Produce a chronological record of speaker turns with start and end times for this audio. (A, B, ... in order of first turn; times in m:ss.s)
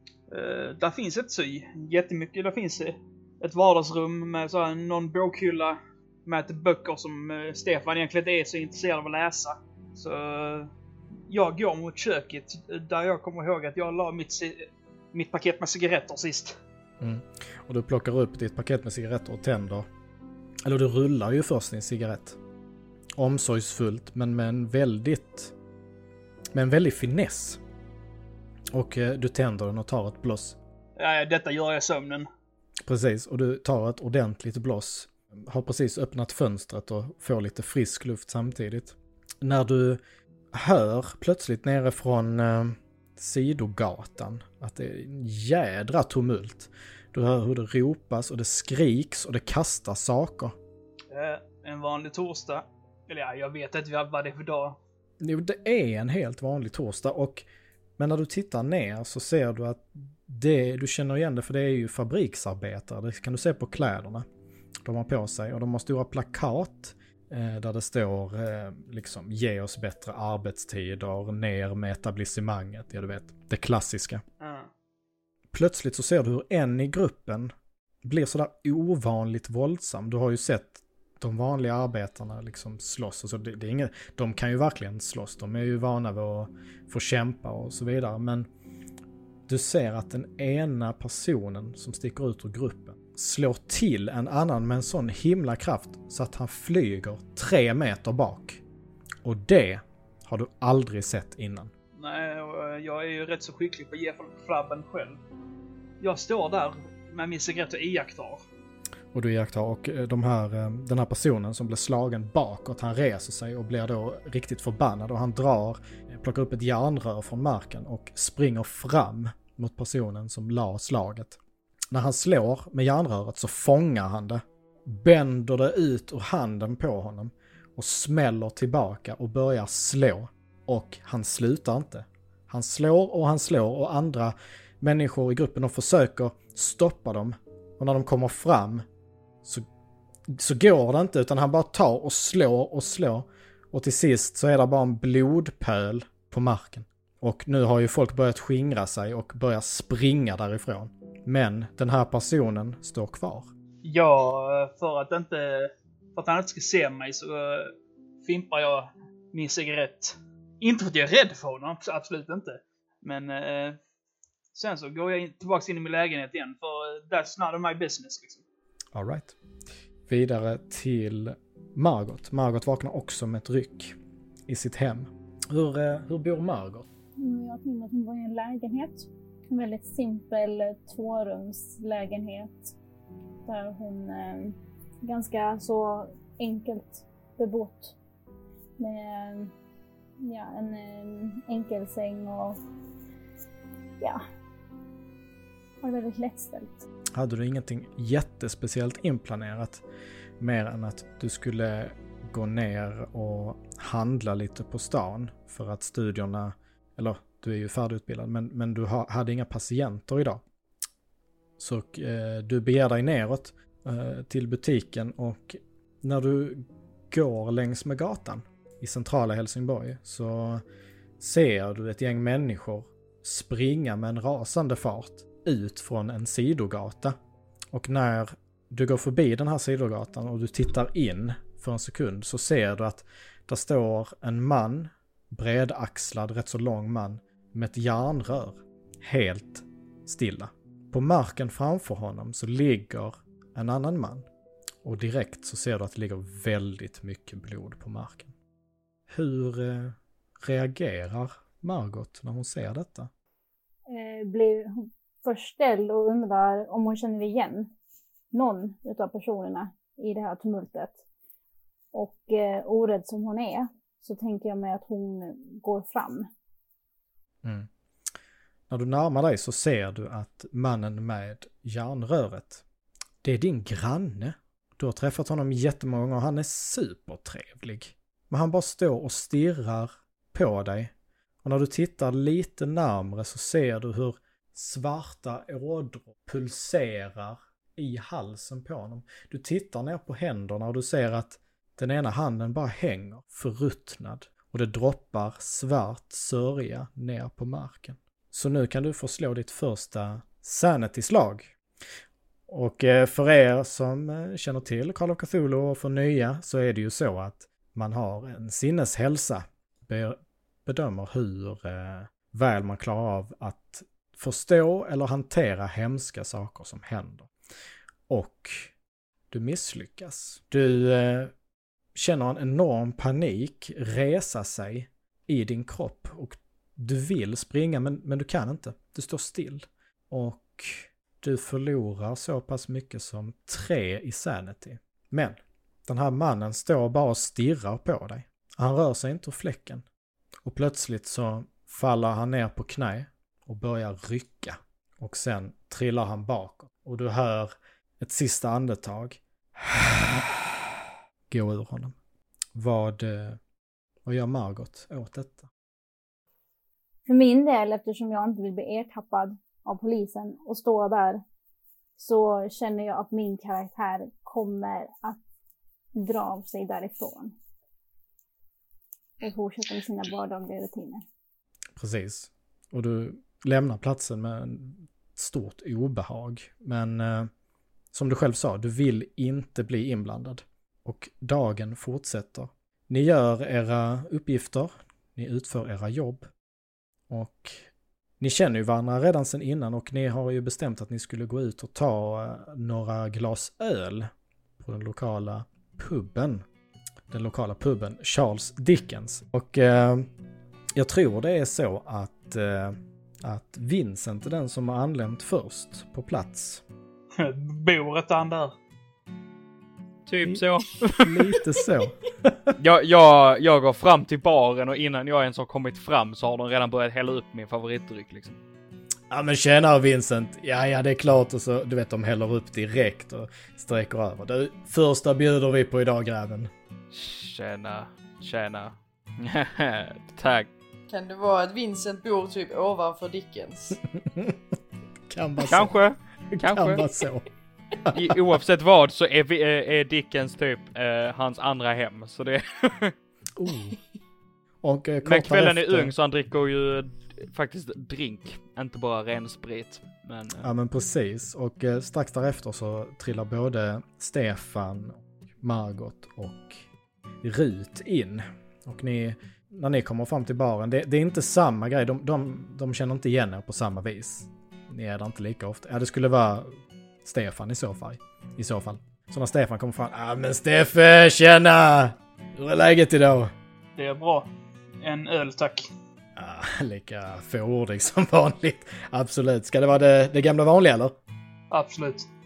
0:00.3-0:10.7 A
0:11.3-0:16.6 A
0:17.0-0:19.9 B
0:20.7-0:22.4 B
0:23.2-0:25.5 B
0:26.5-0:27.6 B
0:28.7-0:30.6 B
0:31.0-0:32.3 A
0:32.9-0:40.0 B
0:40.5-0:50.6 B
0:51.1-0:54.8 A
0:55.2-0:57.4 B
0:58.0-1:04.3 B
1:04.8-1:14.2 B
1:14.4-1:14.7 A
1:15.5-1:17.5 B
1:18.0-1:28.5 B
1:29.5-1:38.6 B
1:39.2-1:41.7 B
1:42.0-1:45.2 A
1:46.0-1:48.4 A
1:49.1-2:01.4 B
2:01.9-2:18.8 B
2:20.3-2:33.5 B
2:33.8-2:43.8 A
2:44.5-2:48.4 A
2:48.9-2:49.4 B
2:50.1-2:54.0 B
2:54.5-2:56.8 B
2:57.2-3:02.7 C
3:03.5-3:08.0 C
3:08.8-3:09.5 C
3:10.2-3:12.6 C
3:15.8-3:16.8 C
3:17.2-3:19.8 B
3:20.4-3:30.4 B
3:31.6-3:40.6 B
3:41.2-3:47.2 B
3:47.7-4:04.3 B
4:04.8-4:08.3 B
4:09.1-4:13.1 B
4:13.9-4:17.7 C
4:18.3-4:21.0 C
4:21.9-4:26.3 C
4:27.4-4:27.7 B
4:28.7-4:32.6 B
4:33.2-5:01.6 B
5:02.5-5:17.3 B
5:18.1-5:18.7 B
5:19.3-5:21.3 B
5:22.0-5:39.8 B
5:40.4-5:50.5 B
5:51.3-5:52.0 B
5:52.6-5:53.4 B
5:54.1-5:55.5 B
5:57.1-6:01.2 C
6:02.0-6:05.2 C
6:06.0-6:07.3 C
6:09.2-6:11.0 C
6:11.8-6:17.3 B
6:17.9-6:26.3 B
6:27.1-6:36.4 B
6:37.1-6:40.1 B
6:40.8-6:46.6 B
6:47.2-6:48.6 A
6:50.1-6:51.4 D
6:50.2-6:52.6 B
6:52.6-6:58.4 D
6:59.1-7:06.5 B
7:06.9-7:10.5 D
7:10.9-7:13.8 E
7:13.9-7:14.4 B
7:15.1-7:15.8 B
7:15.5-7:16.8 D
7:16.3-7:17.3 B
7:17.8-7:18.2 B
7:17.9-7:22.9 D
7:23.4-7:23.8 B
7:24.6-7:25.9 B
7:25.0-7:30.5 D
7:30.4-7:36.6 B
7:37.2-7:53.3 B
7:53.8-7:54.3 A
7:54.8-7:55.7 A
7:56.2-8:01.0 B
8:01.5-8:02.1 A